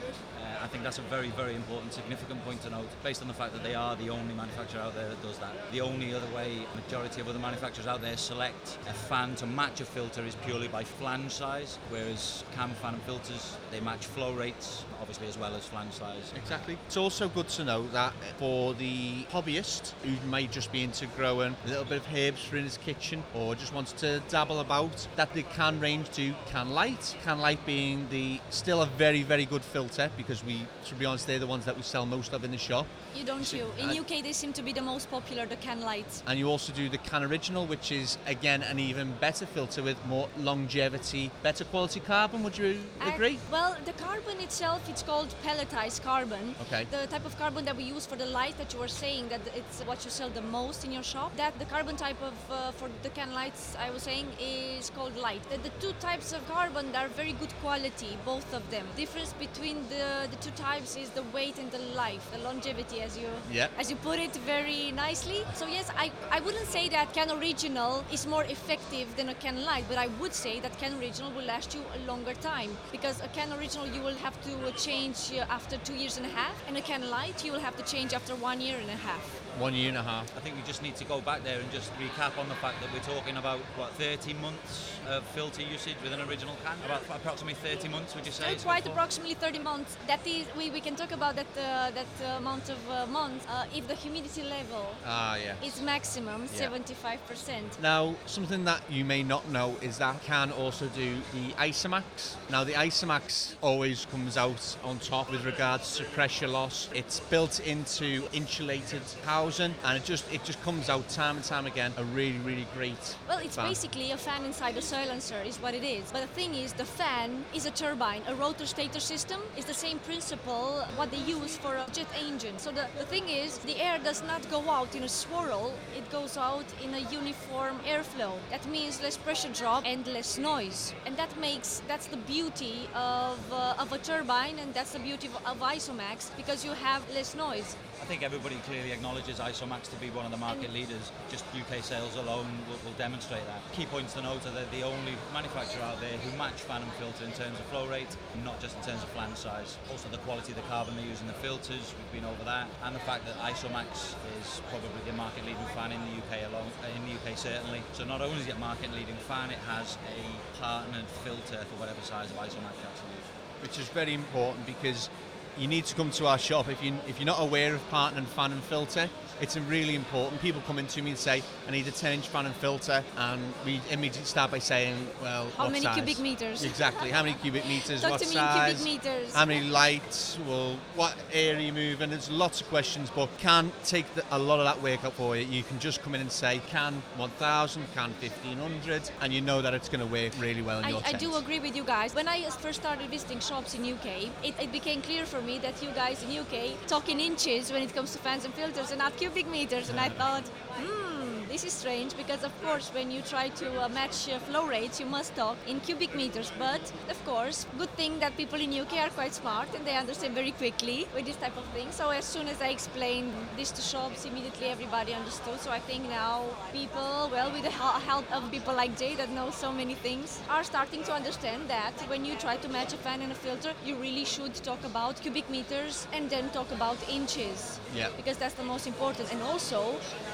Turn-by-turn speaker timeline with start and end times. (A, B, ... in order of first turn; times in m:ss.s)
0:00.3-0:16.7 A
0:16.3-0:34.0 B
0:33.1-0:36.2 C
0:36.2-0:43.4 B
0:43.0-1:19.3 C
0:46.6-0:46.9 B
1:03.4-1:03.7 B
1:19.5-1:20.3 B
1:20.3-1:29.0 A
1:28.4-1:35.0 C
1:35.0-1:35.8 B
1:35.6-1:37.8 C
1:36.5-1:36.7 B
1:37.8-1:53.8 B
1:53.2-2:17.8 C
2:18.0-2:43.3 A
2:43.6-3:11.4 B
2:55.6-2:57.1 C
2:57.8-2:59.6 C
3:10.8-3:50.0 C
3:47.9-3:48.1 B